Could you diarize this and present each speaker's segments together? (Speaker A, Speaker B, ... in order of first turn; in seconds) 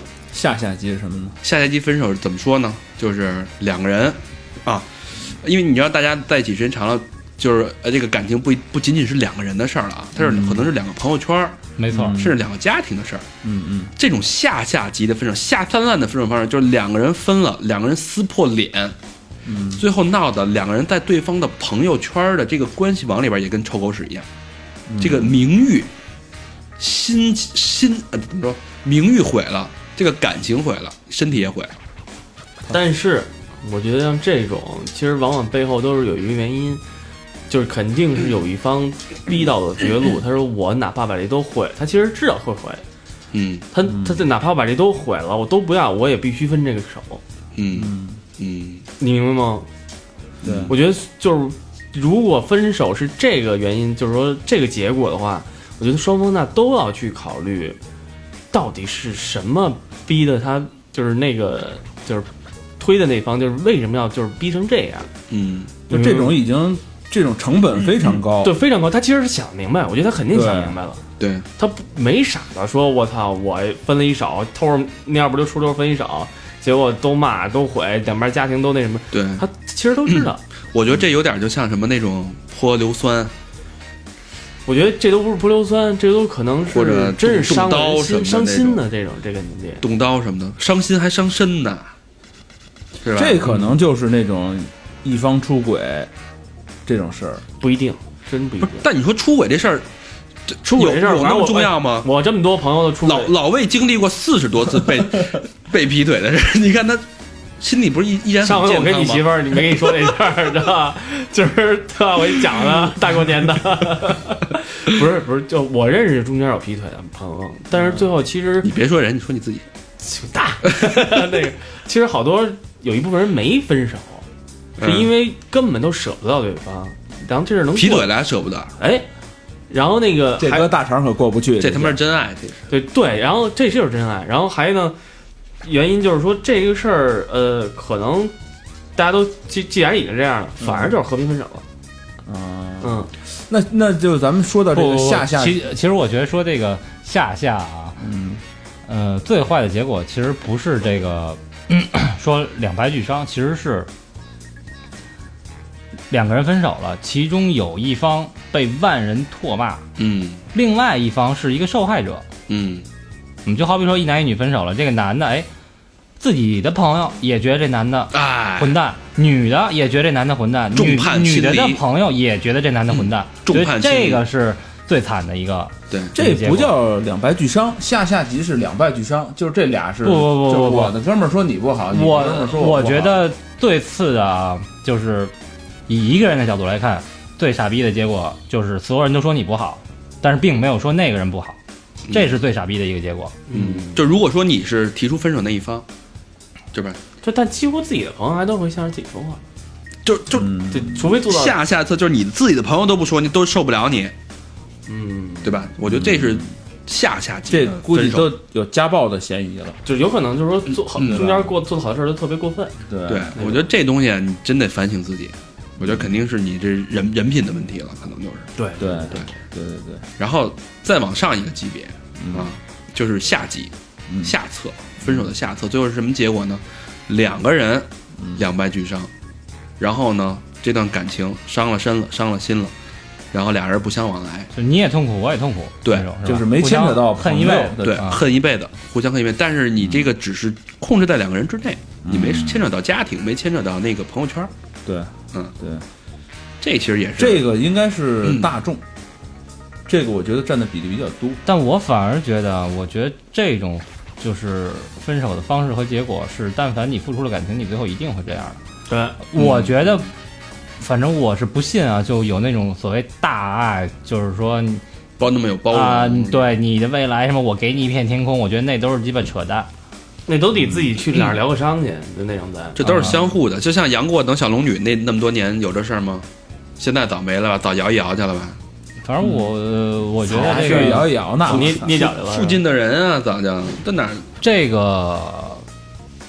Speaker A: 0.3-1.4, 10.2-10.7, 11.9-12.4, 13.4-13.9, 19.4-19.8, 24.9-25.5, 43.9-44.2, 47.7-48.2, 50.4-50.7, 65.9-68.5, 70.3-70.8, 93.1-96.1, 96.8-97.4, 130.4-132.0, 140.6-140.9, 142.2-145.6, 148.0-148.4, 176.1-183.3, 200.3-201.0, 205.8-206.5, 207.5-209.8, 211.0-211.5, 212.9-213.4, 215.8-216.1, 218.8-220.0, 222.2-222.5, 224.1-224.3, 225.0-225.3, 228.2-228.4, 236.2-238.1, 239.8-240.1, 242.0-242.7, 244.8-245.8, 247.2-248.8, 249.9-251.4, 272.8-273.3, 279.2-279.5, 280.2-282.1
Speaker B: 1.4-13.3, 14.0-18.9, 19.8-24.2, 25.0-25.9, 26.8-31.7, 43.3-43.6, 47.5-48.8, 50.4-50.7, 65.3-65.7, 71.2-71.5, 79.1-79.4, 80.1-83.3, 86.7-88.8, 89.8-91.9, 93.0-93.6, 98.6-99.8, 100.5-102.1, 103.0-107.0, 107.6-109.3, 118.6-119.6, 124.8-125.1, 127.7-128.7, 131.6-132.7, 160.0-160.4, 162.5-162.8, 168.1-168.8, 170.7-171.8, 172.9-174.2, 192.1-192.3, 193.5-195.8, 196.7-197.0, 200.0-204.1, 205.4-208.3, 210.9-211.3, 213.1-218.5, 220.2-229.1, 229.8-232.7, 233.3-234.5, 235.8-236.1, 237.8-244.5, 246.6-247.5, 248.2-248.5, 259.4-260.0, 265.2-266.5, 272.8-276.2, 276.8-278.6, 281.5-284.3
Speaker C: 11.8-12.2, 144.7-148.0, 148.8-153.9, 156.1-159.8, 160.5-162.2, 163.4-165.5, 166.2-176.8, 180.0-180.9, 181.9-185.3, 185.9-191.6, 192.1-193.4, 234.5-238.2, 251.4-258.6, 259.2-260.1, 260.8-264.8, 265.7-269.7, 279.0-281.1, 284.4-285.6
Speaker D: 32.7-36.8, 37.5-42.8, 43.7-47.2, 49.0-49.7, 50.7-57.8, 58.5-65.1, 65.9-66.4, 68.4-71.0, 71.6-80.4, 84.7-89.8, 97.6-98.9, 100.6-103.3, 108.4-118.7, 120.0-124.2, 124.8-128.1, 128.8-129.1, 129.7-130.7, 132.7-135.0, 135.6-138.3, 138.9-141.6, 142.8-143.1, 193.5-194.0, 197.2-199.4, 200.7-201.6, 204.9-205.7, 209.8-212.8, 213.3-213.6, 218.6-219.3, 258.9-259.2, 270.3-272.8, 280.3-282.6